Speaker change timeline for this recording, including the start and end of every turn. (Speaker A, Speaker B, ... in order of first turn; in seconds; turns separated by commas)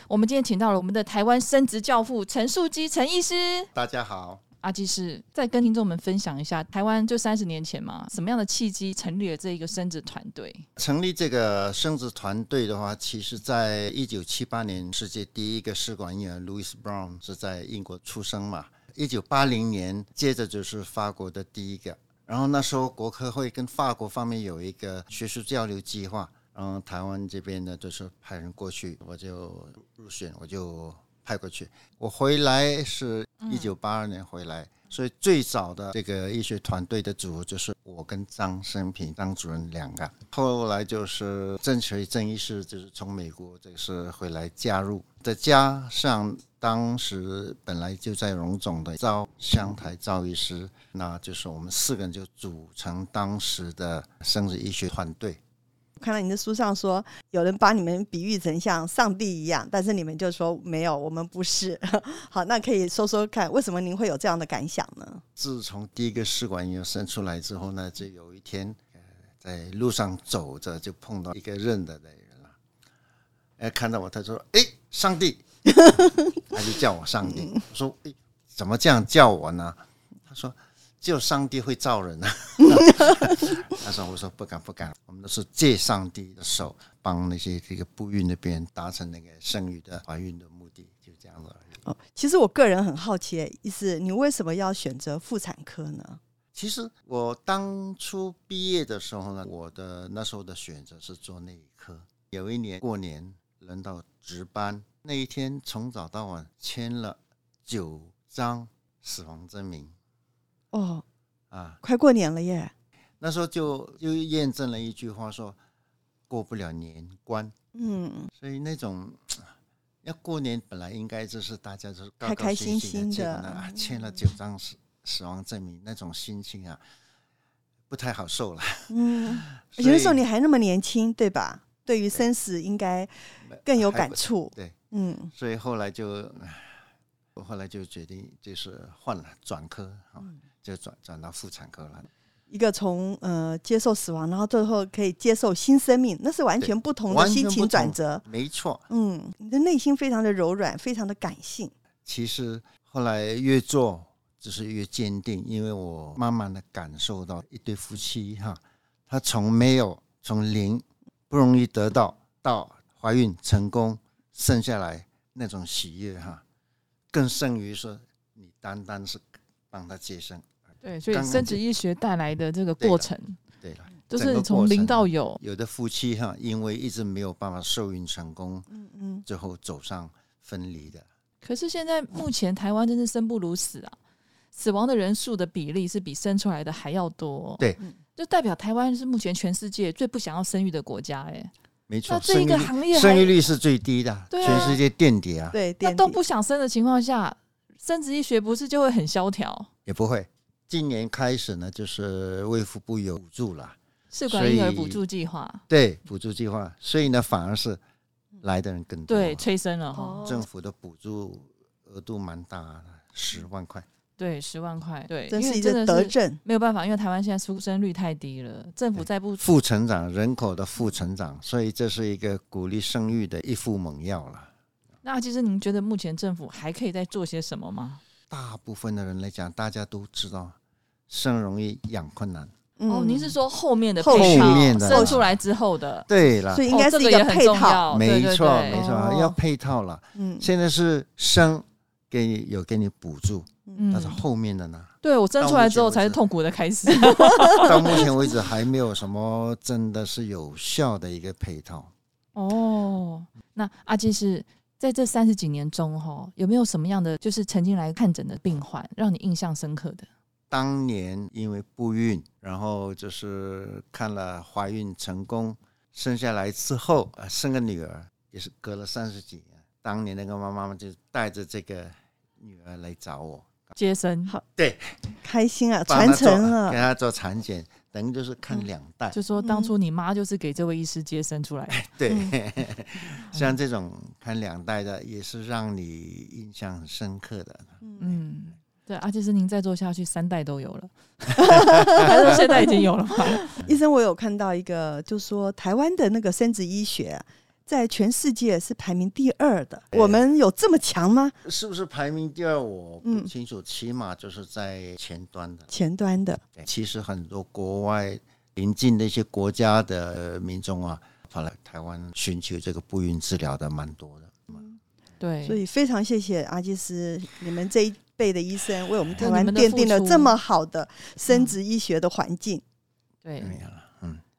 Speaker A: 0.1-3.7, Speaker B: 3.8-4.4, Speaker A: 4.6-10.7, Speaker B: 10.8-55.4, Speaker A: 33.4-33.7, Speaker C: 56.0-65.2, Speaker B: 65.4-68.8, Speaker B: 69.4-72.6, Speaker B: 73.6-91.8, Speaker C: 91.9-96.2, Speaker B: 96.5-109.9, Speaker C: 110.7-111.0, Speaker B: 111.5-111.8, Speaker C: 111.8-112.7, Speaker B: 113.2-115.6, Speaker B: 116.3-117.5, Speaker C: 117.8-118.3, Speaker B: 118.4-119.5, Speaker B: 120.0-126.8, Speaker C: 122.2-123.8, Speaker B: 127.9-130.2, Speaker C: 128.9-135.3, Speaker B: 133.5-134.8, Speaker B: 135.3-136.8, Speaker B: 137.3-142.1, Speaker C: 142.5-148.2, Speaker B: 146.6-148.8, Speaker C: 148.9-151.7, Speaker B: 152.1-166.4, Speaker B: 167.1-170.5, Speaker A: 170.8-173.4, Speaker B: 171.1-171.6, Speaker B: 172.8-173.1, Speaker B: 173.6-178.7, Speaker A: 174.1-175.4, Speaker C: 178.7-179.2, Speaker B: 179.3-181.1, Speaker A: 181.4-184.0, Speaker A: 184.5-191.5, Speaker B: 191.9-195.6, Speaker A: 192.1-193.3, Speaker A: 194.3-194.8, Speaker C: 194.4-194.7, Speaker C: 195.5-196.2, Speaker A: 195.8-199.7, Speaker B: 199.9-203.8, Speaker A: 204.1-205.6, Speaker B: 204.3-205.0, Speaker B: 205.7-207.8, Speaker B: 208.4-209.5, Speaker A: 209.1-210.3, Speaker C: 209.9-210.4, Speaker B: 210.2-213.9, Speaker A: 214.2-219.5, Speaker C: 215.3-216.4, Speaker B: 219.0-224.5, Speaker A: 225.0-228.0, Speaker B: 228.3-230.6, Speaker B: 231.1-232.5, Speaker C: 232.8-233.4, Speaker A: 232.9-236.1, Speaker C: 234.0-235.2, Speaker B: 234.1-235.3, Speaker B: 236.1-236.7, Speaker C: 236.5-238.0, Speaker A: 236.7-239.3, Speaker B: 237.9-246.2, Speaker C: 238.7-239.2, Speaker C: 240.2-240.5, Speaker C: 243.7-244.0, Speaker A: 243.8-244.2, Speaker A: 245.0-248.1, Speaker C: 247.0-248.1, Speaker B: 247.6-251.9, Speaker A: 252.3-260.1, Speaker B: 260.5-273.7, Speaker A: 273.8-274.3, Speaker B: 274.6-275.1, Speaker C: 275.2-276.8, Speaker B: 275.9-279.2, Speaker A: 279.1-281.8, Speaker C: 279.4-279.7, Speaker B: 281.7-288.2, Speaker C: 282.1-282.4, Speaker A: 283.3-283.6, Speaker C: 287.8-288.2, Speaker A: 288.0-293.5, Speaker B: 291.5-292.0, Speaker C: 291.6-301.4, Speaker B: 299.9-300.2, Speaker B: 301.4-305.7, Speaker C: 303.0-303.3, Speaker C: 305.7-306.4, Speaker B: 306.6-314.6, Speaker A: 315.2-315.6, Speaker C: 315.4-322.6, Speaker A: 319.2-320.4, Speaker A: 321.3-321.6, Speaker A: 323.2-323.6, Speaker B: 323.4-324.2